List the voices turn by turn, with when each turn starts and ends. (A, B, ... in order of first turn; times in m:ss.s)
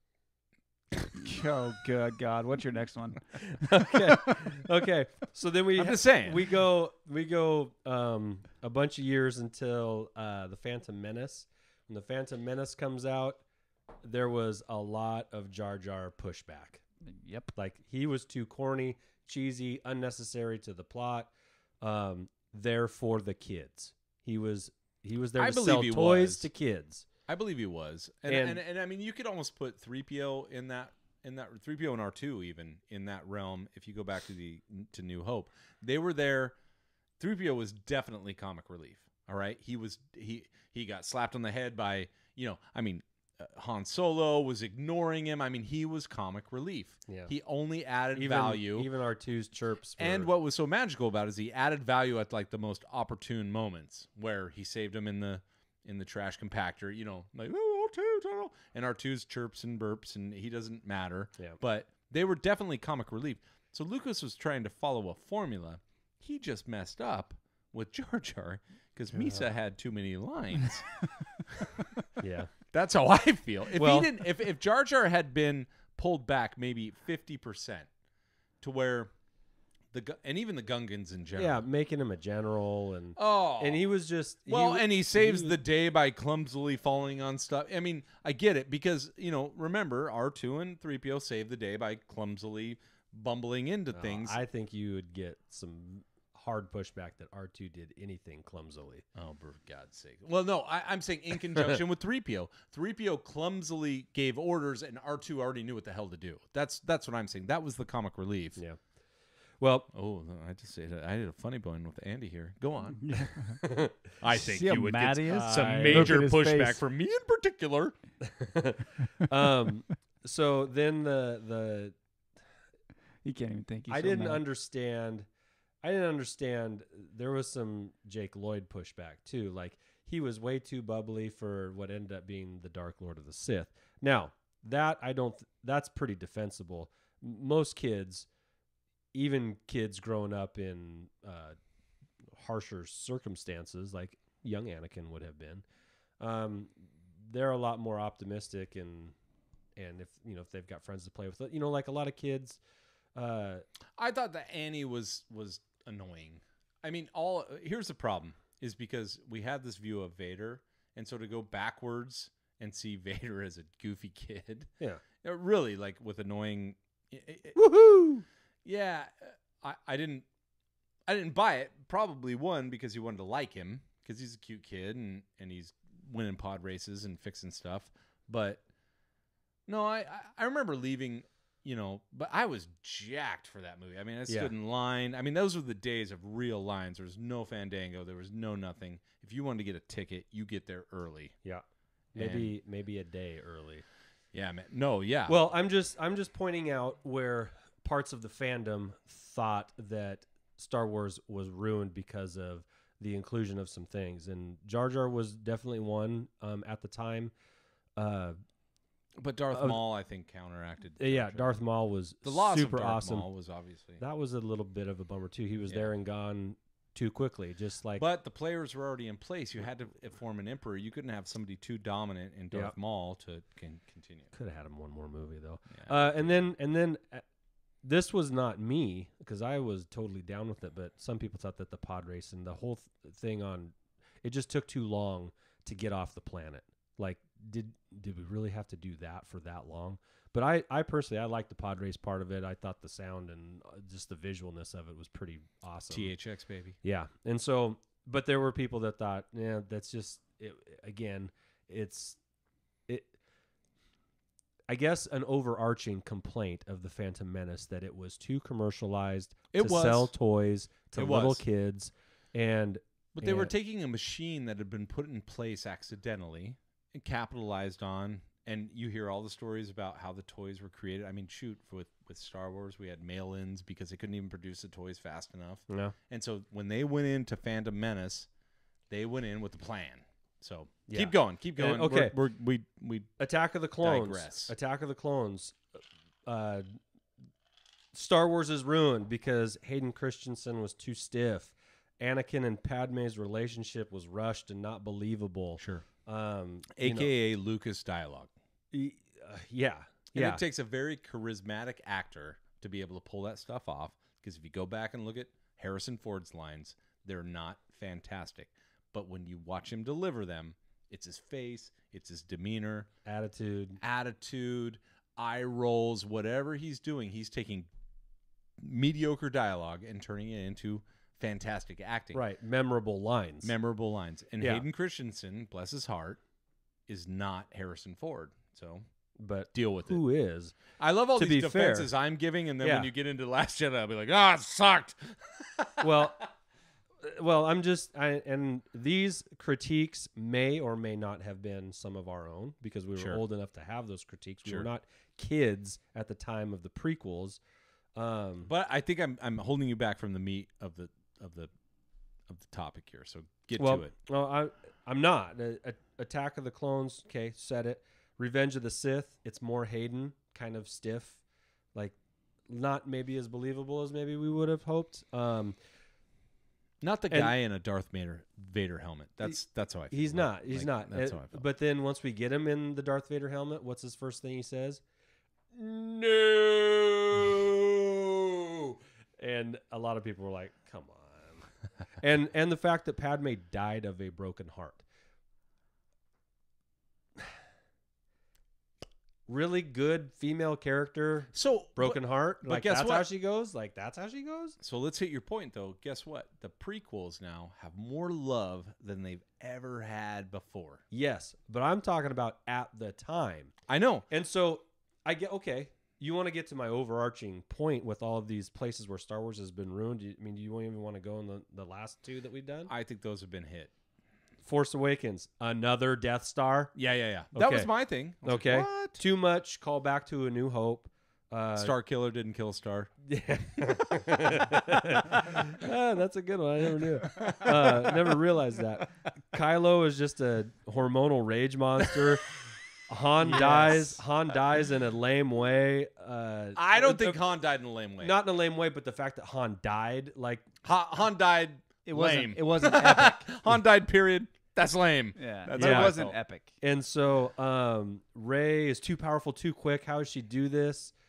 0:01.1-0:04.4 A
0:03.6-0:13.4 B
0:05.8-0:06.4 C
0:14.0-0:16.8 B
0:17.0-0:17.5 A
0:17.6-0:27.1 B
0:25.4-0:26.5 C
0:27.3-0:36.6 C
0:28.3-0:28.6 B
0:37.2-0:48.9 C
0:48.1-0:50.3 B
0:50.0-1:11.7 C
1:09.2-1:09.5 B
1:12.2-1:12.5 B
1:12.7-1:17.9 C
1:13.8-1:14.1 B
1:18.6-1:19.1 C
1:19.9-1:21.6 C
1:21.4-1:25.6 B
1:23.2-1:23.9 C
1:24.5-1:34.4 C
1:33.9-1:39.0 B
1:39.2-1:48.6 C
1:49.6-1:49.9 B
1:49.9-1:53.6 C
1:53.0-1:53.6 A
1:53.6-1:53.9 B
1:54.2-1:58.0 C
1:54.3-1:56.8 A
1:55.3-1:56.2 B
1:58.3-2:01.9 B
2:03.2-2:04.4 A
2:03.9-2:05.3 B
2:05.8-2:18.3 B
2:19.1-2:21.6 B
2:22.4-2:25.6 B
2:26.2-2:29.1 B
2:29.8-2:32.6 B
2:33.2-2:33.6 B
2:34.0-2:44.7 C
2:45.2-2:47.6 C
2:47.6-2:48.2 B
2:48.6-2:50.3 C
2:51.1-2:58.6 C
2:59.7-3:11.3 C
3:11.4-3:13.8 B
3:12.2-3:12.5 C
3:14.3-3:15.4 C
3:15.3-3:27.3 B
3:28.0-3:28.4 B
3:29.2-3:31.6 C
3:29.5-3:29.8 B
3:31.0-3:33.3 B
3:32.2-3:34.0 C
3:34.0-3:38.0 B
3:38.0-3:44.3 C
3:44.3-3:47.2 B
3:45.8-3:46.1 C
3:47.8-4:06.1 B
4:05.9-4:06.8 C
4:06.8-4:12.2 B
4:12.9-4:13.1 B
4:14.7-4:23.5 B
4:19.5-4:20.1 C
4:21.0-4:21.4 C
4:23.2-4:38.3 C
4:35.7-4:36.0 B
4:38.9-4:43.1 C
4:40.9-4:42.2 B
4:43.2-4:45.6 B
4:43.8-4:44.5 C
4:46.3-4:46.8 B
4:47.9-4:57.1 B
4:55.6-4:55.8 C
4:56.8-4:58.3 C
4:58.7-5:00.4 B
5:00.2-5:12.9 C
5:13.0-5:13.8 B
5:13.8-5:17.7 C
5:18.6-5:22.2 C
5:22.1-5:23.5 B
5:23.4-5:26.2 C
5:24.4-5:24.6 B
5:26.9-5:28.9 C
5:29.2-5:30.6 B
5:29.5-5:30.0 C
5:30.8-5:36.1 C
5:31.2-5:31.9 B
5:32.6-5:32.9 B
5:35.8-5:36.3 B
5:37.0-5:47.4 B
5:48.0-5:48.5 B
5:48.5-5:51.5 C
5:52.3-5:53.9 C
5:53.6-6:01.2 B
6:02.5-6:05.6 B
6:06.8-6:11.4 C
6:09.9-6:14.8 B
6:15.5-6:24.8 B
6:29.3-6:34.6 B
6:31.3-6:33.1 C
6:34.6-6:40.8 C
6:40.9-6:43.5 B
6:43.7-6:44.1 C
6:44.1-6:52.7 B
6:52.7-6:53.7 C
6:54.4-6:56.8 B
6:56.8-6:59.0 C
6:57.3-6:57.7 B
6:58.2-7:01.7 B
7:01.6-7:02.9 C
7:03.1-7:17.2 B
7:07.1-7:08.2 C
7:13.2-7:14.0 A
7:16.6-7:18.2 C
7:18.0-7:20.4 B
7:20.6-7:26.2 C
7:21.8-7:23.3 A
7:25.2-7:26.5 A
7:25.6-7:26.0 B
7:26.6-7:30.9 B